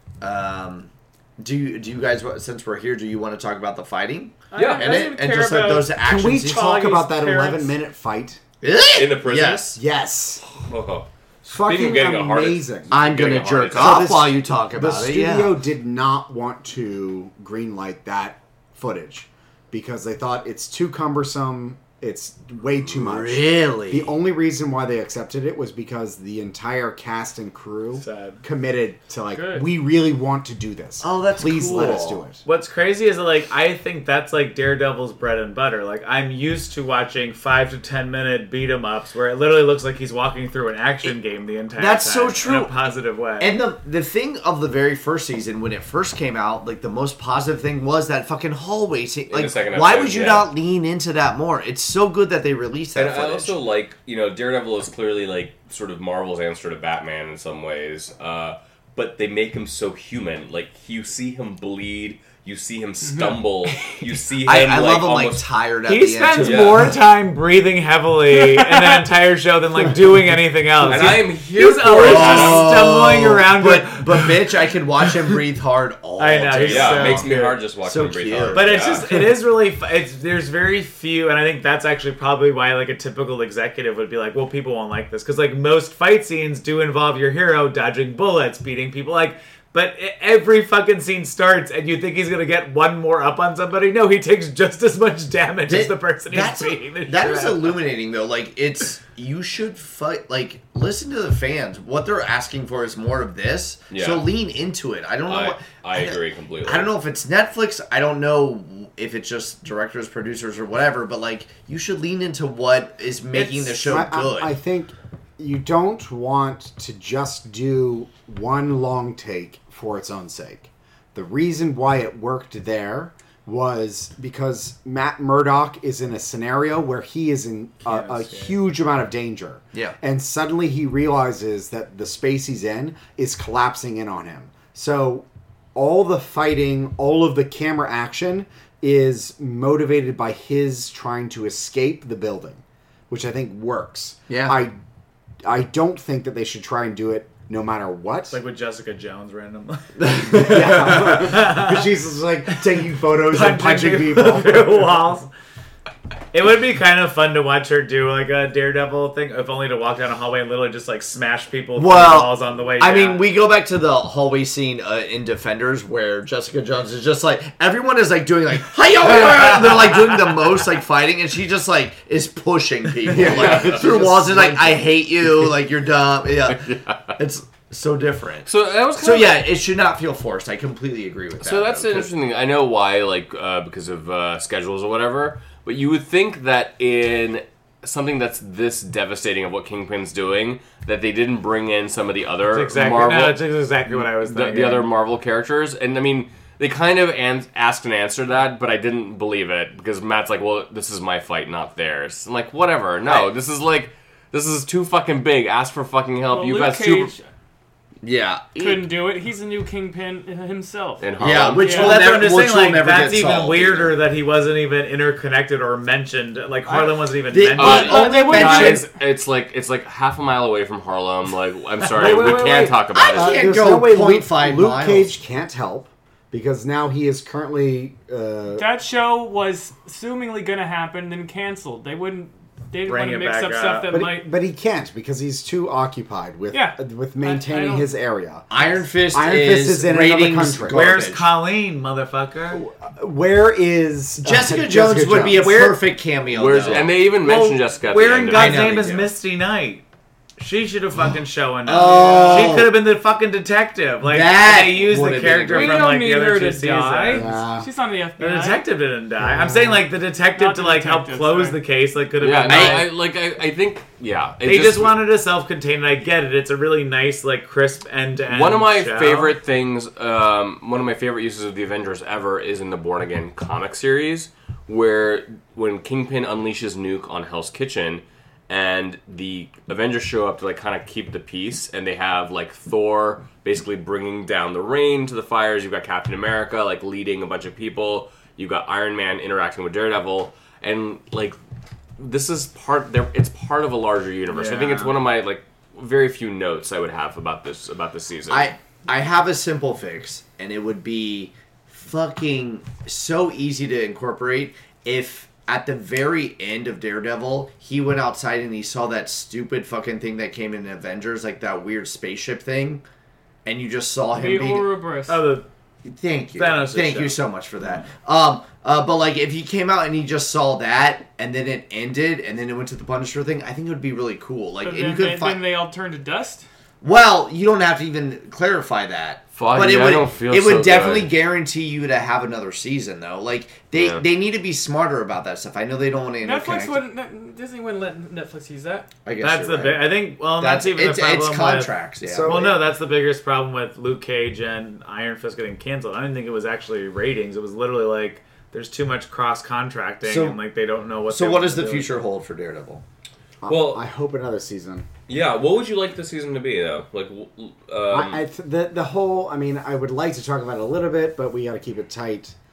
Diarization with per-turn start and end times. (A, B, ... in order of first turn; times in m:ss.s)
0:00.2-0:06.7 A
0:04.5-0:07.8 B
0:04.5-0:04.9 C
0:06.0-0:08.4 D
0:08.6-0:09.8 A
0:08.9-0:09.8 C
0:09.7-0:10.4 D
0:10.4-0:14.1 C
0:11.4-0:12.9 D
0:12.9-0:15.6 A
0:13.7-0:32.4 D
0:22.9-0:24.1 A
0:28.0-0:28.4 E
0:29.3-0:29.7 B
0:31.0-0:32.2 A
0:31.8-0:43.6 E
0:41.8-0:42.7 A
0:43.4-0:53.6 A
0:49.3-0:50.5 C
0:52.9-1:05.4 C
1:03.0-1:03.4 B
1:03.7-1:04.0 E
1:04.4-1:06.9 A
1:05.9-1:14.4 E
1:06.4-1:06.9 C
1:10.8-1:12.7 C
1:12.0-1:19.0 A
1:16.2-1:17.6 E
1:16.6-1:19.1 C
1:18.5-1:37.8 E
1:35.6-1:54.5 A
1:43.9-1:44.2 C
1:45.3-1:46.9 C
1:53.3-2:24.7 D
2:07.8-2:08.5 E
2:24.3-2:24.6 A
2:25.4-2:28.4 D
2:28.3-2:31.8 E
2:30.0-2:31.3 A
2:30.4-2:34.9 D
2:33.2-2:35.3 E
2:36.3-2:43.3 E
2:41.8-3:02.1 A
2:53.1-2:54.8 D
2:53.1-2:54.4 C
2:56.5-2:57.1 C
2:58.4-2:59.5 C
3:01.4-3:27.1 C
3:12.5-3:14.9 E
3:26.3-3:27.3 B
3:28.0-3:28.9 A
3:28.6-3:32.0 B
3:31.0-3:31.9 C
3:31.2-3:34.0 A
3:31.7-3:38.4 E
3:36.7-3:38.9 A
3:37.6-3:43.4 C
3:37.6-3:38.9 B
3:41.8-3:42.8 E
3:42.9-3:45.1 A
3:43.1-3:48.7 D
3:48.5-3:54.3 B
3:52.8-3:54.0 E
3:53.9-3:58.5 D
3:56.5-3:57.9 B
3:58.5-4:01.3 A
3:59.1-4:00.9 D
4:00.7-4:02.6 E
4:02.5-4:05.7 D
4:04.2-4:07.0 A
4:05.3-4:05.7 E
4:06.3-4:08.8 C
4:07.2-4:09.8 E
4:08.3-4:09.1 A
4:10.4-4:17.4 E
4:11.6-4:12.7 A
4:11.8-4:12.5 B
4:14.0-4:15.9 A
4:15.5-4:18.6 B
4:17.1-4:17.7 D
4:18.2-4:22.9 E
4:19.2-4:19.8 D
4:20.4-4:21.6 B
4:22.2-4:25.0 C
4:22.5-4:22.9 A
4:24.4-4:29.3 E
4:28.3-4:51.4 C
4:52.0-4:58.5 C
4:54.3-4:54.9 E
4:58.3-5:12.8 A
5:13.4-5:14.7 A
5:14.1-5:15.2 B
5:15.1-5:15.4 E
5:15.8-5:25.4 A
5:16.4-5:17.2 E
5:24.6-5:26.4 B
5:26.8-5:36.8 A
5:29.3-5:31.1 C
5:33.7-5:34.0 C
5:36.2-5:38.9 B
5:39.0-5:42.5 A
5:39.2-5:51.9 E
5:42.0-5:42.6 D
5:50.0-5:50.4 A
5:51.1-5:52.8 A
5:53.4-5:54.9 D
5:53.5-5:53.8 C
5:55.1-5:58.2 C
5:57.9-6:02.3 D